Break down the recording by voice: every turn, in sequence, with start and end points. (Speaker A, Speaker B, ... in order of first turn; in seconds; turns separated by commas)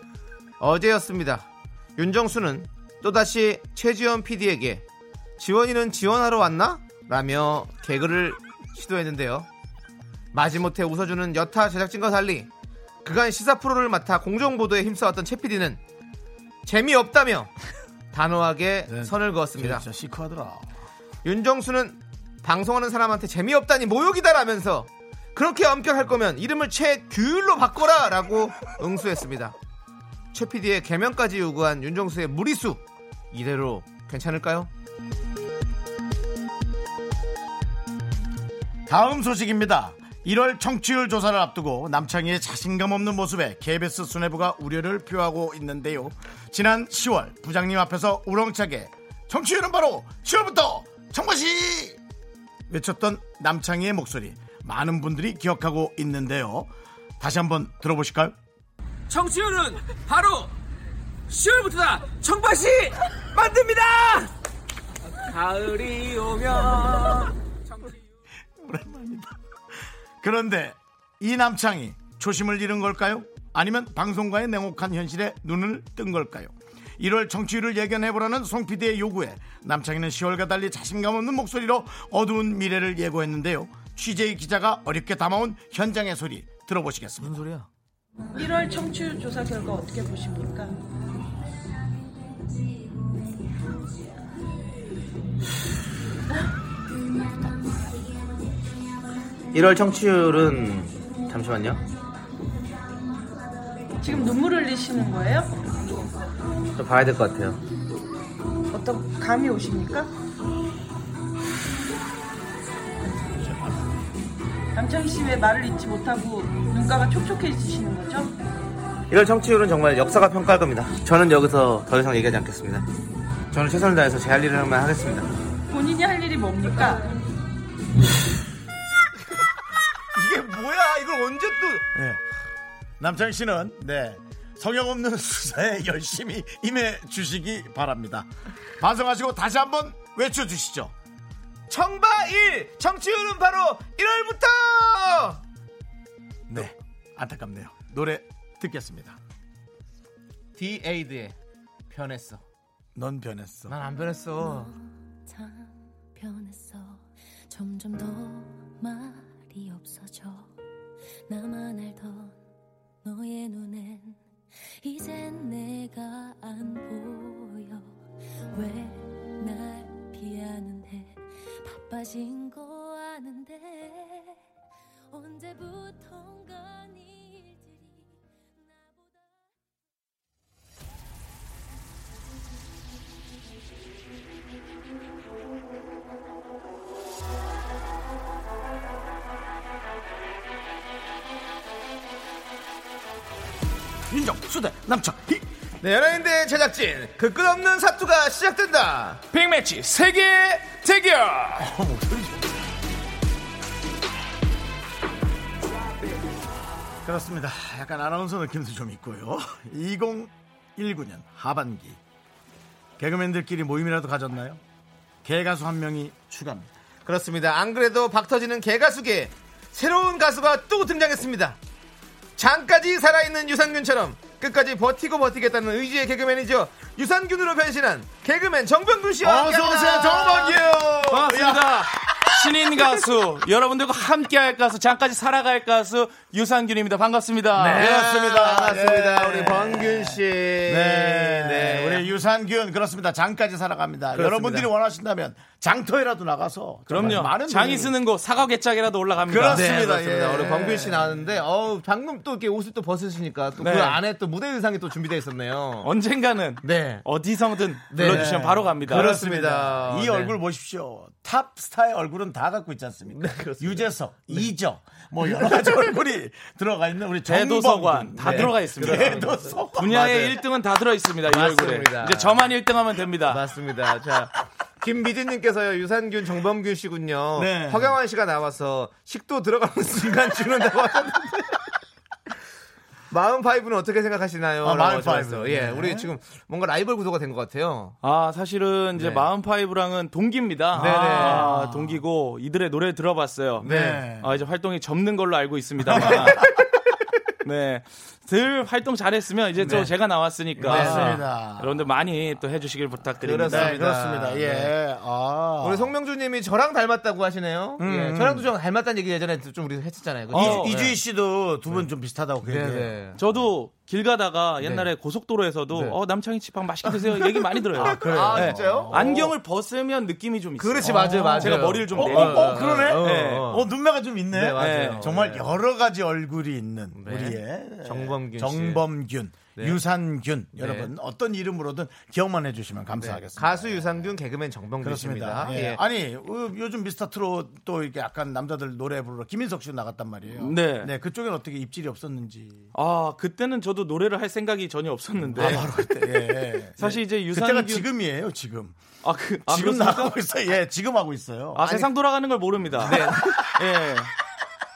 Speaker A: 0.6-4.8, Speaker A: 5.4-9.5, Speaker A: 10.3-12.5, Speaker A: 13.0-15.8, Speaker A: 16.6-17.5, Speaker A: 18.1-19.8, Speaker B: 18.9-20.7, Speaker A: 21.2-29.5, Speaker A: 30.3-34.7, Speaker B: 38.9-52.0, Speaker B: 52.7-58.4, Speaker A: 59.1-60.5, Speaker A: 61.3-64.3, Speaker A: 65.1-67.4, Speaker B: 68.5-69.3, Speaker B: 70.2-87.5, Speaker A: 87.2-87.7, Speaker C: 88.3-90.8, Speaker A: 99.5-101.8, Speaker C: 104.0-105.8, Speaker A: 106.8-107.6, Speaker C: 108.7-110.1, Speaker C: 114.7-118.3, Speaker A: 119.1-122.8, Speaker A: 123.5-125.3, Speaker C: 125.7-127.1, Speaker A: 130.1-131.8, Speaker B: 131.9-132.2, Speaker B: 133.0-140.9, Speaker A: 141.7-145.4, Speaker B: 146.5-149.2, Speaker A: 150.6-151.3, Speaker A: 151.9-152.4, Speaker B: 152.9-153.8, Speaker A: 153.7-154.7, Speaker D: 154.3-160.5, Speaker D: 161.3-162.4, Speaker D: 163.0-164.2, Speaker D: 164.8-168.0, Speaker D: 168.5-174.4, Speaker D: 175.1-179.5, Speaker B: 194.1-195.5, Speaker A: 195.8-199.2, Speaker E: 199.3-201.7, Speaker B: 201.6-202.6, Speaker B: 207.0-212.0, Speaker B: 213.0-214.6, Speaker B: 215.2-216.7, Speaker A: 217.0-221.6, Speaker A: 222.4-231.2, Speaker B: 229.2-232.3, Speaker E: 231.1-237.9, Speaker A: 237.5-242.1, Speaker B: 237.7-247.9, Speaker A: 244.1-244.7, Speaker E: 246.9-249.8, Speaker B: 249.2-251.2, Speaker A: 249.4-255.9, Speaker E: 253.6-254.0, Speaker E: 255.8-259.2, Speaker A: 256.6-257.0, Speaker A: 257.9-260.4, Speaker B: 258.0-270.1, Speaker A: 263.1-264.5, Speaker A: 265.3-265.6, Speaker E: 267.2-273.4, Speaker A: 268.2-270.4, Speaker A: 271.2-272.5, Speaker A: 273.2-281.6, Speaker B: 277.4-278.0, Speaker A: 283.1-288.0, Speaker B: 284.6-286.1, Speaker E: 288.0-296.6, Speaker A: 288.9-289.2, Speaker A: 290.7-291.5, Speaker B: 290.7-292.0, Speaker A: 293.6-294.0, Speaker B: 293.6-294.4, Speaker B: 295.9-296.4, Speaker E: 297.4-303.8, Speaker B: 299.6-301.8, Speaker A: 299.6-299.9, Speaker A: 300.6-301.2, Speaker A: 303.2-304.7, Speaker B: 303.4-305.9, Speaker A: 305.6-311.0, Speaker B: 307.8-308.5, Speaker E: 310.3-310.8, Speaker B: 310.3-312.9, Speaker A: 312.4-313.2, Speaker E: 313.2-323.5, Speaker A: 314.6-314.9, Speaker A: 315.7-316.0, Speaker A: 316.8-319.3, Speaker B: 317.8-319.3, Speaker A: 320.6-323.7, Speaker B: 320.8-334.1, Speaker A: 324.3-325.5, Speaker E: 324.5-325.1, Speaker A: 326.9-328.9, Speaker A: 330.6-330.9, Speaker A: 333.0-335.8, Speaker B: 334.8-342.7, Speaker E: 340.3-340.9, Speaker E: 342.7-345.9, Speaker B: 345.3-348.8, Speaker A: 345.4-345.7, Speaker E: 346.8-347.9, Speaker E: 349.0-350.2, Speaker B: 349.4-351.8, Speaker E: 351.6-354.1, Speaker A: 351.6-351.9, Speaker A: 352.8-353.4, Speaker B: 352.8-353.6